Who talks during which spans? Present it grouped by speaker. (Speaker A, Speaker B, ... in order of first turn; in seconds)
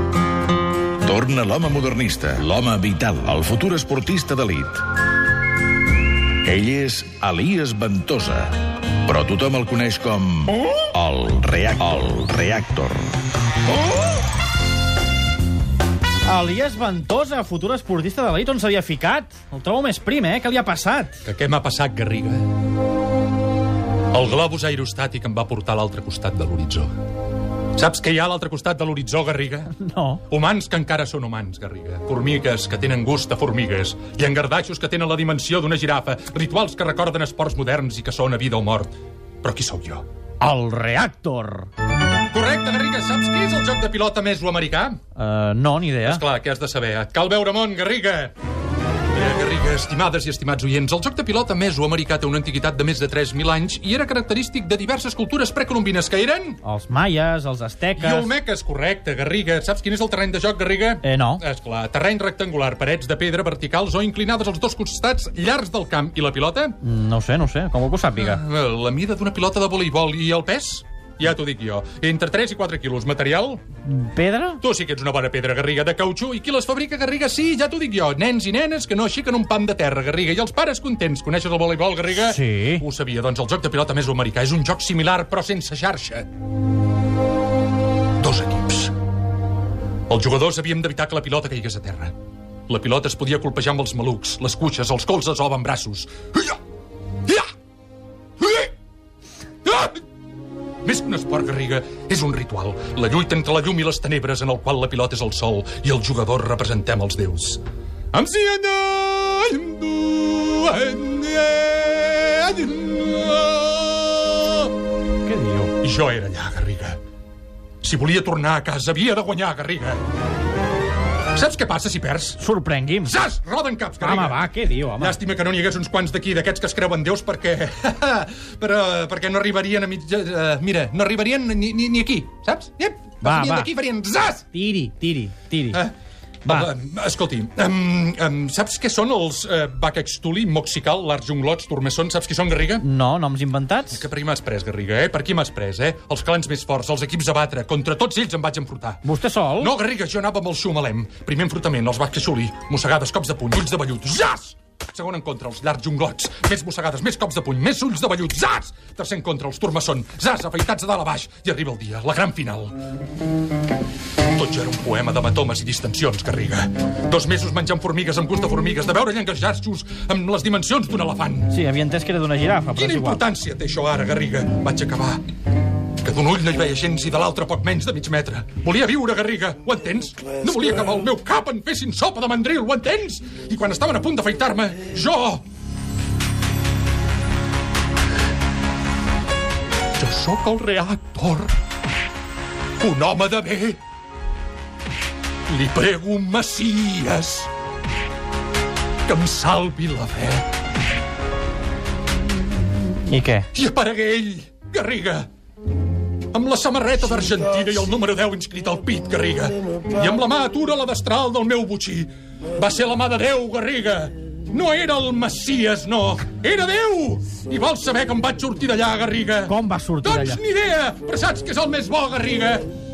Speaker A: 1.0-4.9, 6.4-13.2
Speaker B: 16.2-21.2, 29.7-30.2, 40.4-41.7, 45.1-46.2, 56.6-58.3, 61.0-61.4, 66.8-68.4, 73.8-74.6, 82.2-82.8, 115.2-115.7, 122.4-123.2, 124.0-125.2, 133.2-133.7, 134.5-135.8, 136.4-136.7, 142.8-144.0, 149.0-149.7, 171.5-173.2, 203.0-203.5, 219.4-220.4
Speaker C: 21.2-22.5, 24.1-26.9, 27.8-29.7, 30.3-40.0, 42.3-45.0, 46.1-48.3, 49.1-56.6, 58.0-66.8, 68.2-73.6, 74.6-86.3, 88.2-88.9, 90.1-92.1, 92.7-96.6, 98.4-98.7, 99.6-100.0, 100.8-107.6, 108.1-114.7, 115.8-117.0, 117.8-120.0, 121.3-122.4, 123.0-124.4, 125.0-134.5, 136.4-142.8, 143.9-149.0, 149.6-162.8, 164.3-171.5, 172.8-175.2, 176.0-185.4, 190.0-191.6, 192.8-193.8, 195.5-197.5, 199.1-200.5, 203.5-205.3, 206.3-222.7